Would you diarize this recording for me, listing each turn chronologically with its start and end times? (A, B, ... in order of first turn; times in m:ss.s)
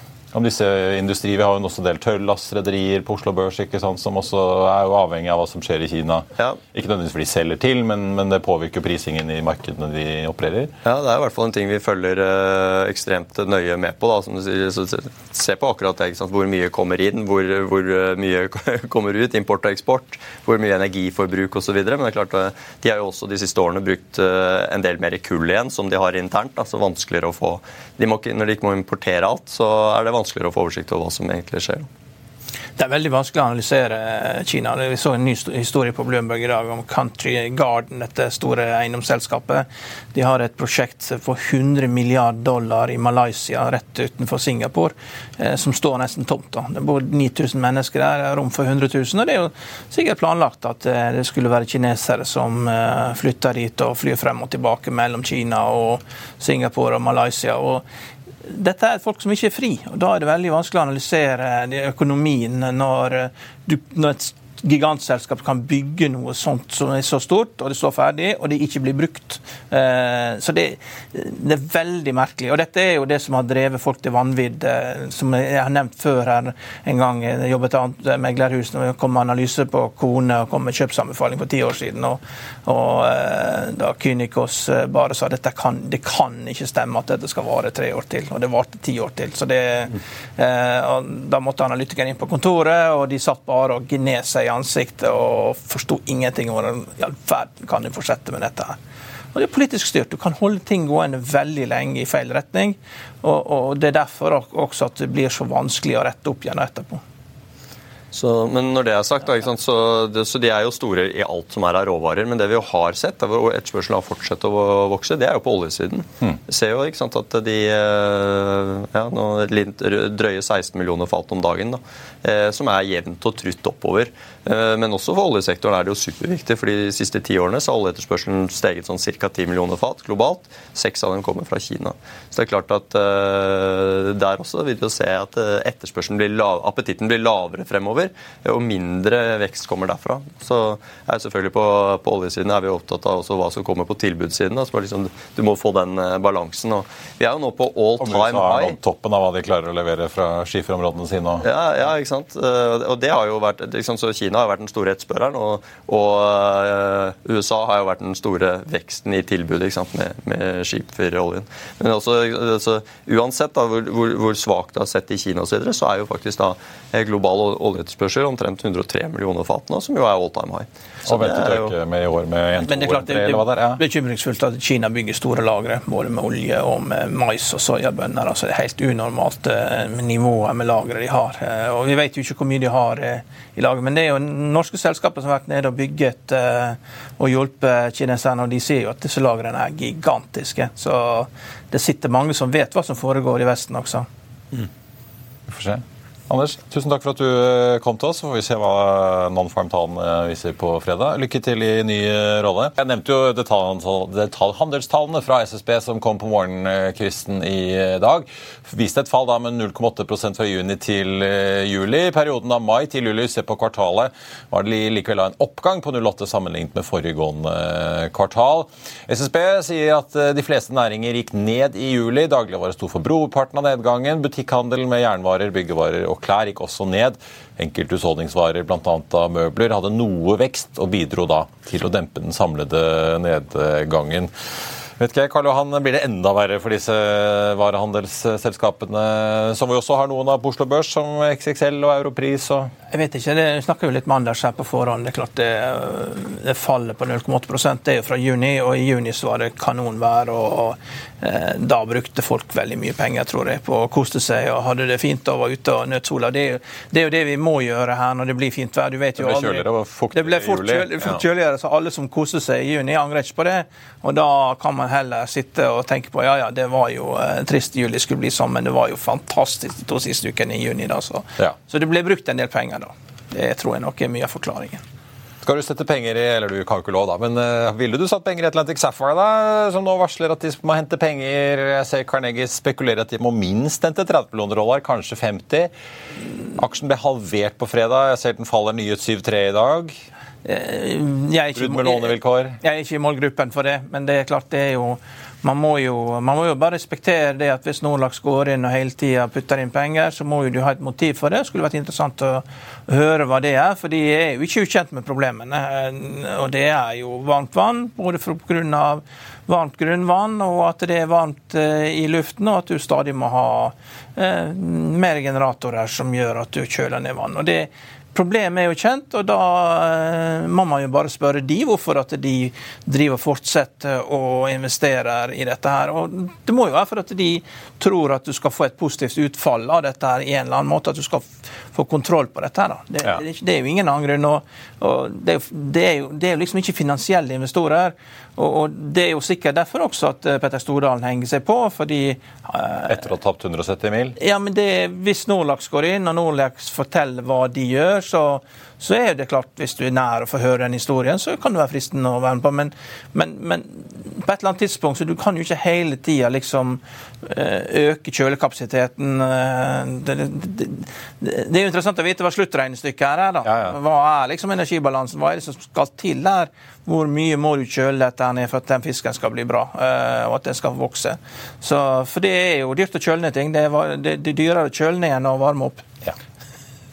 0:00.3-0:10.7 A
0:10.8-0:31.9 B
0:32.8-0:57.8 C
0:58.4-1:38.8 C
1:39.3-1:47.0 C
1:48.1-2:28.8 B
2:28.0-2:31.4 A
2:31.4-2:51.7 B
2:51.0-2:53.8 A
2:52.6-3:14.1 C
3:15.5-3:54.3 A
3:55.0-4:02.7 A
4:02.9-4:34.8 C
4:19.2-4:21.2 A
4:35.4-4:45.7 A
4:46.6-4:50.0 A
4:50.4-5:43.0 C
4:51.6-4:52.6 A
5:42.9-5:44.2 A
5:44.2-6:15.8 C
6:03.4-6:03.7 A